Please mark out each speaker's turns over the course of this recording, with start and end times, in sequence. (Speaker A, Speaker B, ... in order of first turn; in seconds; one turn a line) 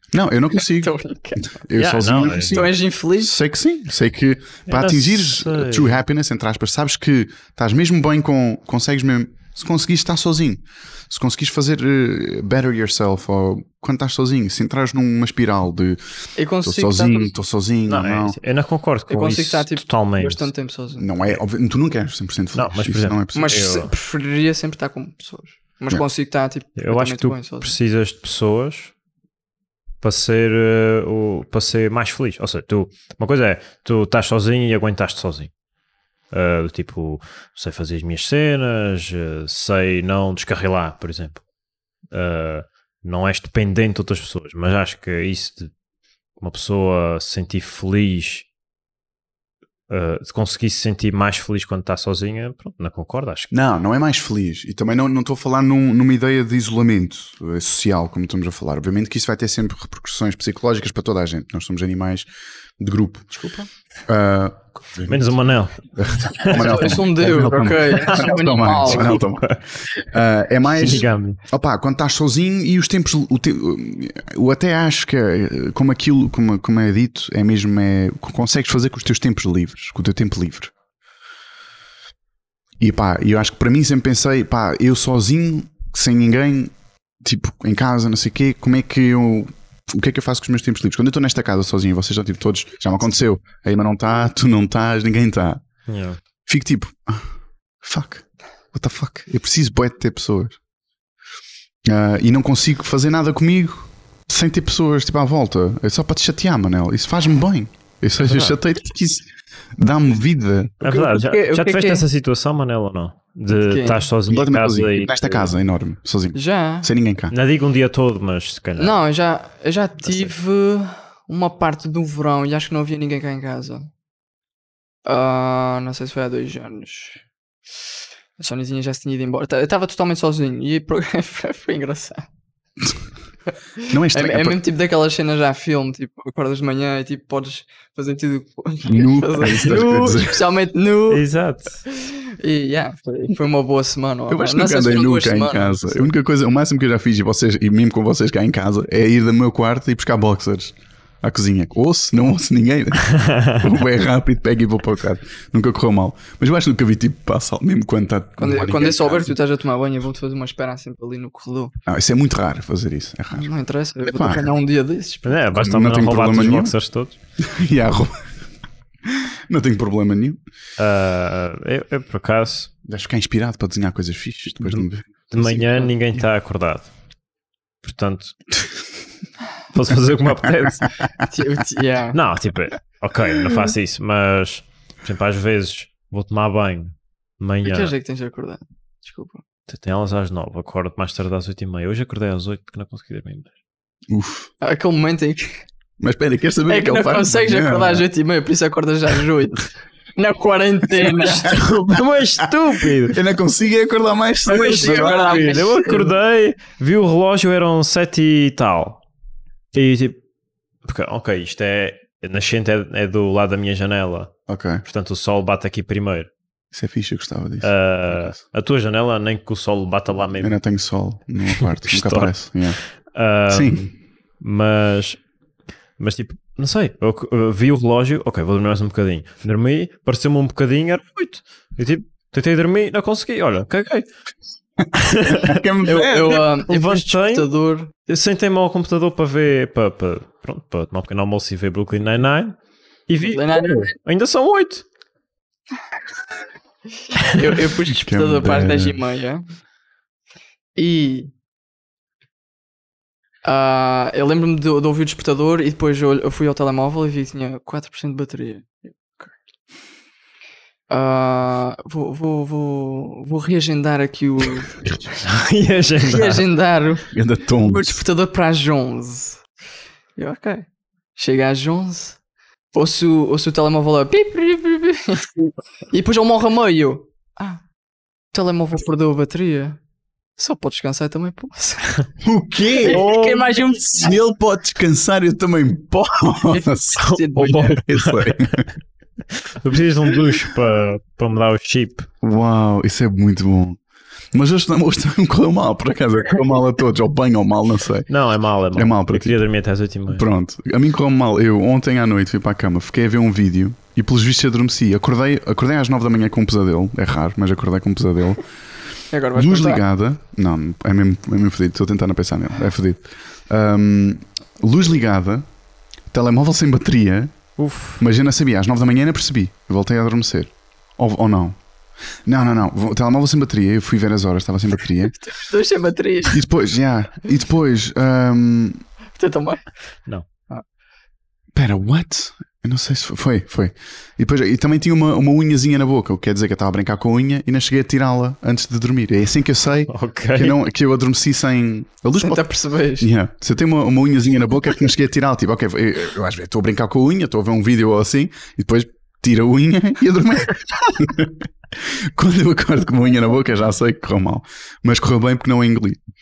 Speaker A: 0.1-18.4
Speaker B: 0.6-1.5
Speaker C: 1.8-2.6
Speaker B: 2.5-3.4
Speaker C: 4.7-6.0
Speaker B: 16.4-17.3
Speaker C: 17.9-20.5
Speaker B: 19.1-21.1
Speaker A: 21.0-23.6
Speaker C: 22.5-23.9
Speaker B: 23.3-27.8
Speaker C: 26.8-28.9
Speaker C: 30.0-35.5
Speaker C: 36.3-41.4
Speaker C: 42.1-45.7
Speaker C: 46.4-48.5
Speaker C: 49.9-53.5
Speaker A: 53.5-62.3
Speaker A: 62.8-63.3
Speaker B: 63.3-63.7
Speaker A: 64.1-65.3
Speaker C: 65.1-67.0
Speaker A: 66.0-80.7
Speaker B: 66.5-69.2
Speaker C: 67.9-68.3
Speaker C: 68.9-70.1
Speaker C: 70.7-71.4
Speaker A: 82.8-95.6
Speaker C: 95.9-96.2
Speaker A: 96.5-97.3
Speaker A: 97.8-100.6
Speaker A: 101.8-110.8
Speaker C: 108.2-108.6
Speaker C: 110.8-115.5
Speaker B: 110.8-112.0
Speaker B: 113.6-114.0
Speaker A: 114.3-117.3
Speaker B: 116.3-116.9
Speaker C: 117.3-119.0
Speaker B: 118.8-123.9
Speaker C: 120.0-120.3
Speaker B: 125.0-127.2
Speaker B: 128.4-132.2
Speaker B: 133.8-141.3
Speaker A: 133.9-134.6
Speaker A: 138.8-140.5
Speaker C: 141.1-141.8
Speaker B: 141.8-146.1
Speaker A: 144.3-159.3
Speaker C: 153.1-153.7
Speaker B: 158.4-161.7
Speaker A: 161.9-163.5
Speaker B: 163.3-165.4
Speaker A: 164.0-164.5
Speaker C: 165.2-167.2
Speaker A: 165.5-166.7
Speaker A: 167.4-168.2
Speaker A: 169.1-170.4
Speaker C: 170.8-172.7
Speaker A: 172.8-175.1
Speaker C: 174.6-176.9
Speaker B: 175.5-175.9
Speaker C: 177.8-178.4
Speaker C: 179.7-180.9
Speaker B: 181.3-182.2
Speaker C: 182.1-187.9
Speaker B: 187.6-189.4
Speaker C: 189.7-193.5
Speaker A: 194.1-194.5
Speaker B: 194.6-195.6
Speaker A: 196.0-198.1
Speaker B: 196.7-201.6
Speaker A: 201.2-201.6
Speaker C: 201.4-203.2
Speaker A: 203.0-205.5
Speaker B: 204.5-206.1
Speaker C: 204.5-209.0
Speaker C: 209.7-210.2
Speaker C: 210.8-216.3
Speaker A: 214.5-214.8
Speaker A: 216.7-218.4
Speaker C: 217.6-220.6
Speaker A: 220.4-222.8
Speaker C: 221.5-222.3
Speaker C: 223.1-225.2
Speaker A: 223.5-223.9
Speaker C: 226.0-234.1
Speaker A: 234.8-236.4
Speaker C: 234.9-235.6
Speaker B: 235.8-237.9
Speaker C: 236.6-237.5
Speaker C: 238.1-244.9
Speaker B: 243.3-243.9
Speaker B: 247.2-249.4
Speaker A: 247.8-249.0
Speaker B: 250.8-251.3
Speaker B: 253.4-259.3
Speaker B: 260.9-264.9
Speaker C: 265.2-266.4
Speaker B: 266.0-269.4
Speaker A: 267.1-268.0
Speaker B: 270.2-272.2
Speaker B: 272.7-277.6
Speaker B: 278.3-279.8
Speaker B: 280.4-282.1
Speaker A: 282.2-283.0
Speaker B: 282.7-284.2
Speaker C: 282.8-283.5
Speaker A: 283.9-288.7
Speaker B: 286.5-287.8
Speaker C: 287.0-288.7
Speaker C: 289.3-292.1
Speaker A: 292.2-293.8
Speaker A: 294.3-298.1
Speaker C: 298.1-300.2
Speaker A: 298.7-299.4
Speaker A: 300.1-308.4
Speaker B: 309.1-309.8
Speaker A: 309.3-315.4
Speaker A: 316.1-317.3
Speaker C: 317.6-318.0
Speaker A: 318.0-321.6
Speaker A: 322.2-325.1
Speaker B: 325.0-326.4
Speaker A: 326.3-328.8
Speaker B: 329.2-329.7
Speaker A: 331.5-342.4
Speaker C: 339.9-340.6
Speaker B: 342.2-343.1
Speaker A: 343.0-356.0